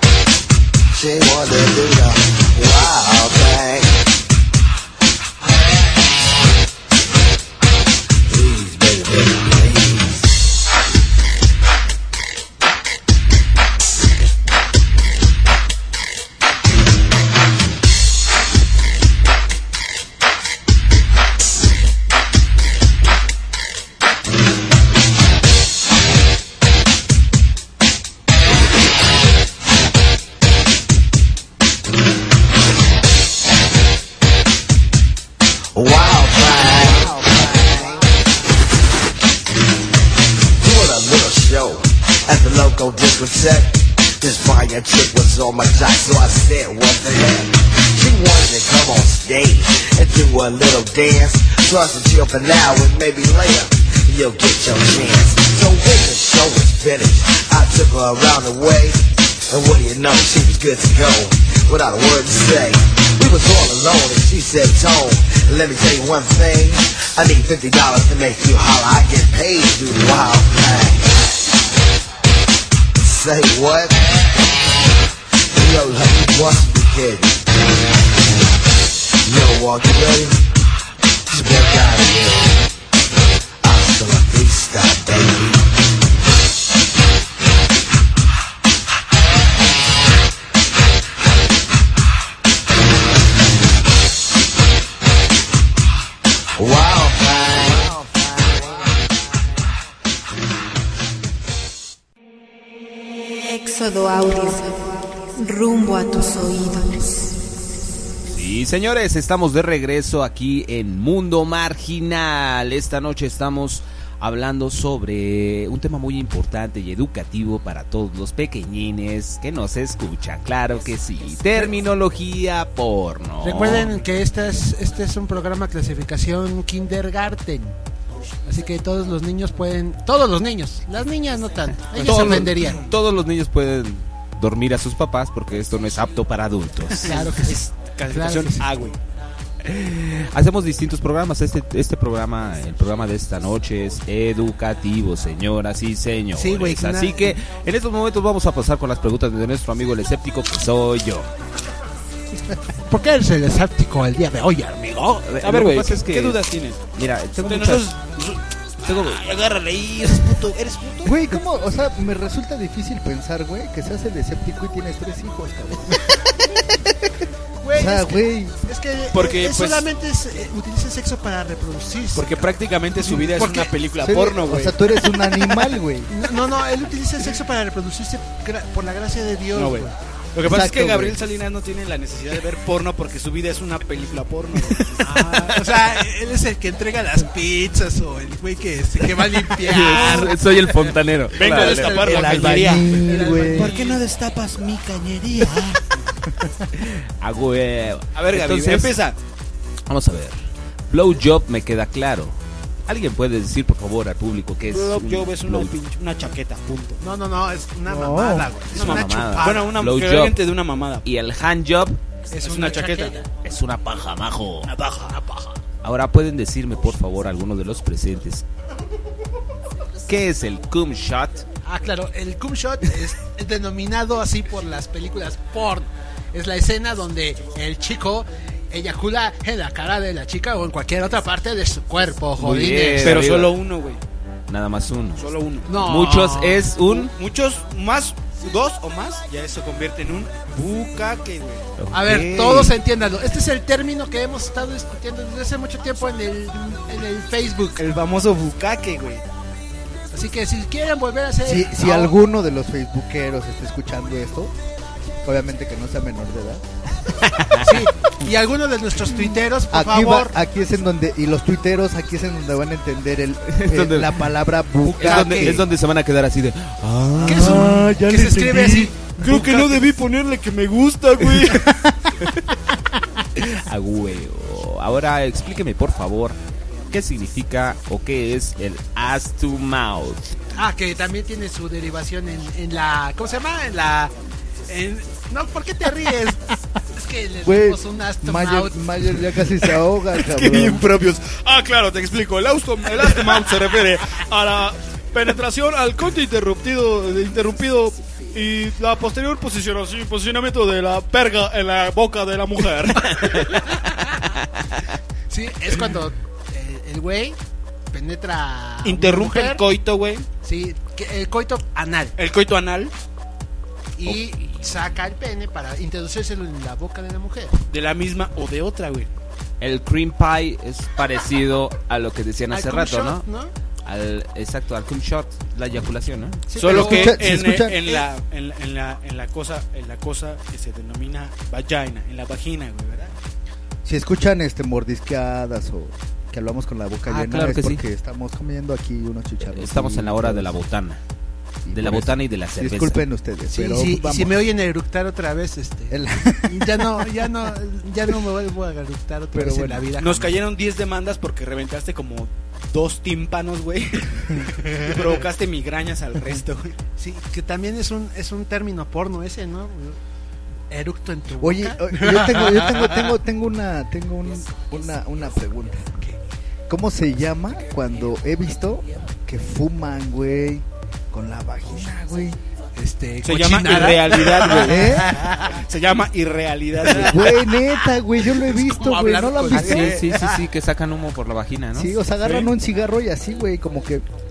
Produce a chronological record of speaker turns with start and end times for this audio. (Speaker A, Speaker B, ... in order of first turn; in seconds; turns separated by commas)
Speaker A: 0.9-4.0, Speaker A: 8.2-10.3, Speaker A: 35.7-38.1, Speaker A: 40.6-71.4, Speaker A: 73.0-74.2, Speaker A: 75.5-77.5, Speaker A: 79.2-80.5, Speaker A: 81.3-82.7, Speaker A: 83.6-85.7, Speaker A: 96.6-98.8, Speaker B: 103.4-107.4, Speaker C: 108.3-124.0, Speaker D: 123.4-127.8, Speaker D: 128.4-132.8, Speaker C: 131.9-137.3, Speaker E: 137.0-139.0, Speaker D: 137.1-138.7, Speaker C: 139.6-151.3, Speaker D: 146.3-147.4, Speaker D: 152.9-155.3, Speaker C: 155.2-156.4, Speaker E: 155.4-156.8, Speaker C: 156.9-157.9, Speaker E: 157.4-161.2, Speaker C: 158.8-159.3, Speaker F: 161.0-166.1, Speaker D: 167.6-173.7, Speaker F: 167.7-168.6, Speaker E: 169.1-169.8, Speaker E: 172.1-174.8, Speaker F: 174.0-176.1, Speaker D: 176.1-179.9, Speaker E: 179.5-185.5, Speaker F: 180.4-181.2, Speaker D: 185.0-194.0, Speaker C: 189.6-192.2, Speaker E: 189.8-190.3, Speaker E: 191.3-195.8, Speaker F: 192.0-193.7, Speaker C: 196.8-199.0, Speaker E: 198.1-199.2, Speaker C: 199.9-200.4, Speaker C: 200.9-202.3, Speaker C: 202.9-205.7, Speaker E: 204.7-207.0, Speaker D: 207.0-209.8, Speaker F: 207.8-208.5, Speaker E: 208.7-211.1, Speaker C: 208.7-210.4, Speaker C: 211.0-212.0, Speaker D: 212.3-213.2, Speaker E: 212.4-213.2, Speaker C: 213.4-214.7, Speaker E: 214.6-215.3, Speaker C: 215.8-218.4, Speaker C: 220.1-221.4, Speaker D: 221.7-233.2, Speaker C: 232.4-233.5, Speaker E: 233.0-234.0, Speaker C: 234.5-237.1, Speaker E: 235.2-235.7, Speaker D: 235.7-236.6, Speaker E: 236.9-241.6, Speaker C: 241.8-242.7, Speaker D: 241.9-247.8, Speaker E: 247.8-249.2, Speaker D: 250.1-252.1, Speaker F: 251.4-254.5, Speaker F: 255.2-256.6, Speaker C: 257.2-257.8, Speaker D: 257.6-260.3, Speaker F: 259.1-265.6, Speaker C: 263.5-264.3, Speaker C: 264.9-267.8, Speaker D: 265.0-265.6, Speaker F: 267.2-269.1, Speaker D: 267.2-269.8, Speaker E: 269.1-271.7, Speaker C: 273.4-276.4, Speaker C: 276.9-280.4, Speaker D: 280.5-284.1, Speaker D: 284.7-288.9, Speaker F: 287.4-290.9, Speaker E: 290.2-303.4, Speaker D: 305.3-307.4, Speaker D: 307.9-309.6, Speaker E: 308.8-310.3, Speaker D: 310.4-312.1, Speaker E: 312.1-312.9, Speaker D: 313.9-317.5, Speaker C: 314.0-314.9, Speaker E: 317.7-319.1, Speaker C: 319.6-323.2, Speaker D: 322.5-323.5, Speaker C: 323.8-326.4, Speaker D: 326.5-327.2, Speaker E: 326.5-333.1, Speaker F: 326.6-328.0, Speaker F: 333.8-340.5, Speaker C: 337.1-337.8, Speaker C: 339.4-341.0, Speaker F: 341.6-344.5, Speaker C: 341.7-343.0, Speaker D: 343.5-350.4, Speaker F: 345.9-347.1, Speaker F: 349.3-349.9, Speaker E: 350.0-356.8, Speaker D: 357.0-360.0, Speaker D: 360.7-363.1, Speaker F: 361.4-365.9, Speaker F: 366.7-372.4, Speaker D: 372.8-375.5, Speaker E: 373.2-377.3, Speaker F: 374.6-375.2, Speaker F: 376.9-380.0, Speaker D: 378.4-380.4, Speaker C: 379.5-381.9, Speaker F: 381.7-384.0, Speaker E: 382.2-382.5